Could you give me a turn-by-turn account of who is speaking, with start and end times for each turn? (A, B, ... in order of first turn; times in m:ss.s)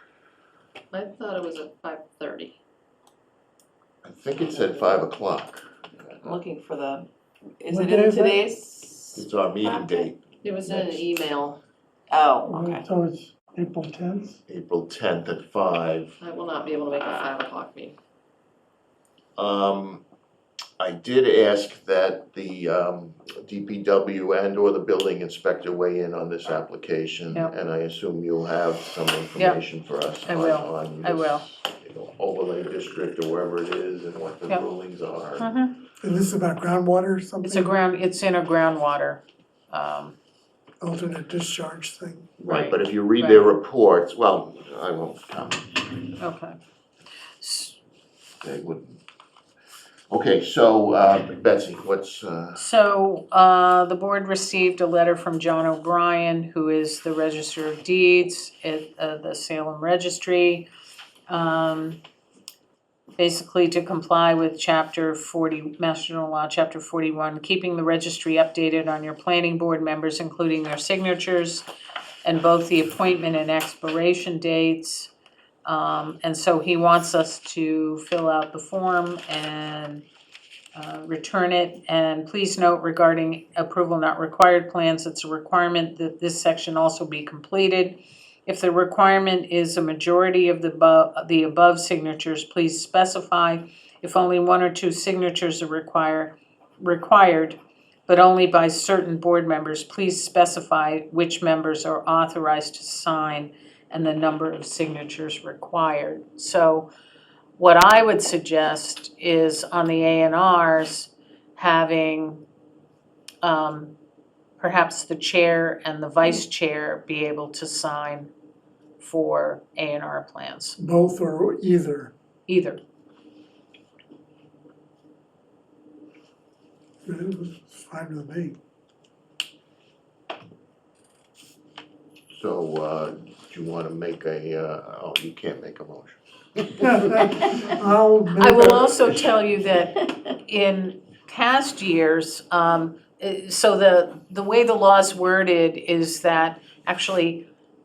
0:00.9-0:02.6 A
0:04.0-0:06.2 B
0:06.2-0:07.1 C
0:07.6-0:10.1 C
0:07.7-0:08.5 D
0:09.1-0:11.0 B
0:10.4-0:11.6 A
0:12.1-0:12.9 C
0:12.5-0:14.4 D
0:14.5-0:16.2 B
0:16.2-0:17.9 A
0:19.4-0:20.0 B
0:20.8-0:35.5 B
0:29.4-0:29.6 E
0:30.2-0:31.4 E
0:35.4-0:35.7 E
0:36.0-0:37.7 D
0:37.4-0:40.1 E
0:40.8-0:42.3 D
0:42.4-0:45.9 B
0:42.4-0:43.5 E
0:46.2-0:46.6 E
0:47.4-0:47.8 E
0:48.4-0:49.0 B
0:50.1-0:52.6 B
0:52.6-1:00.7 E
1:01.3-1:02.0 E
1:03.2-1:11.6 E
1:12.2-1:15.1 E
1:15.6-1:20.0 E
1:20.7-1:46.9 E
1:47.6-1:52.4 E
1:53.4-1:53.9 E
1:54.6-1:58.3 E
1:59.0-2:00.8 E
2:00.8-2:02.1 D
2:02.5-2:02.8 E
2:07.0-2:08.6 D
2:12.3-2:16.2 B
2:16.8-2:19.2 D
2:18.4-2:27.4 E